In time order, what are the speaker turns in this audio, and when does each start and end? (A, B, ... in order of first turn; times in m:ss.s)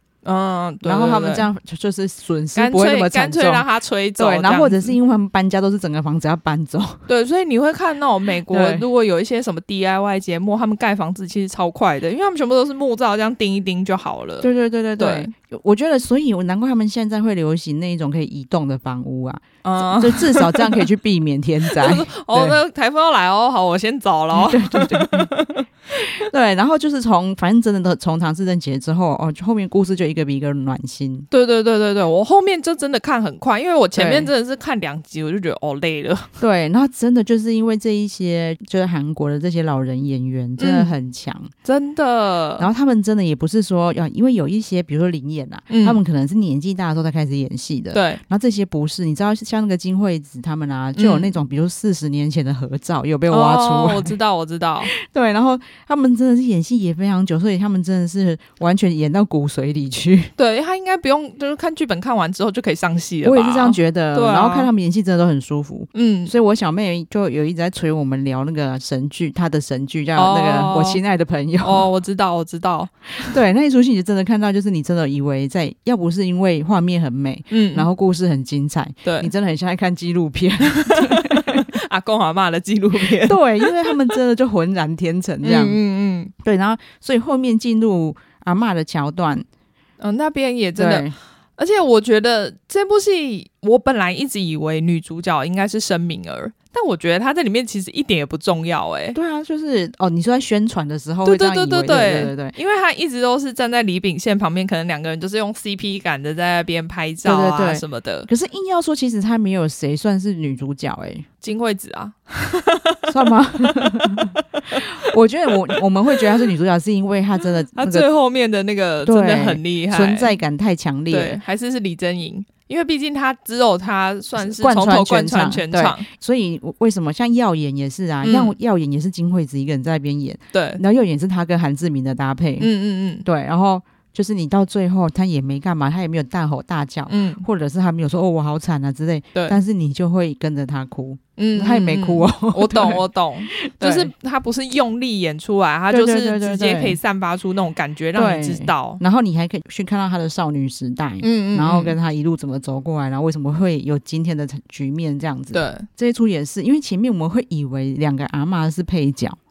0:00.2-0:01.5 A
0:00.8-0:03.6 B
0:02.5-0:05.0 A
0:04.2-0:07.0 B
0:07.1-0:15.3 A
0:08.5-0:08.8 B
0:14.4-0:22.6 B
0:19.6-0:20.9 A
0:21.7-0:26.2 A
0:24.3-0:25.3 B
0:26.1-0:31.3 B
0:31.3-0:36.3 A
0:34.0-0:34.3 B
0:36.4-0:41.5 B
0:40.6-0:40.9 A
0:41.6-0:42.7 A
0:42.6-0:54.1 B
0:45.7-0:46.0 A
0:47.9-0:48.2 A
0:51.0-0:51.3 A
0:53.3-0:54.9 A
0:54.9-1:00.3 B
1:00.4-1:04.7 A
1:03.2-1:11.9 B
1:05.9-1:06.3 A
1:10.1-1:11.0 A
1:11.6-1:13.4 A
1:13.2-1:21.7 B
1:17.5-1:17.9 A
1:19.0-1:19.3 A
1:20.8-1:24.2 A
1:23.2-1:25.8 B
1:25.4-1:26.3 A
1:26.4-1:29.5 B
1:30.0-1:39.2 A
1:30.8-1:31.1 B
1:39.2-1:42.5 B
1:41.2-1:48.3 A
1:47.2-1:51.2 B
1:51.4-1:54.8 A
1:53.1-1:58.1 B
1:55.7-1:56.5 A
1:57.8-2:00.3 A
1:59.0-2:01.4 B
2:01.1-2:06.1 A
2:04.4-2:12.7 B
2:08.2-2:08.6 A
2:10.5-2:10.8 A
2:12.6-2:13.2 A
2:13.2-2:24.1 B
2:17.1-2:17.4 A
2:21.4-2:29.0 A
2:25.9-2:27.0 B
2:28.2-2:39.4 B
2:31.2-2:32.0 A
2:35.5-2:35.9 A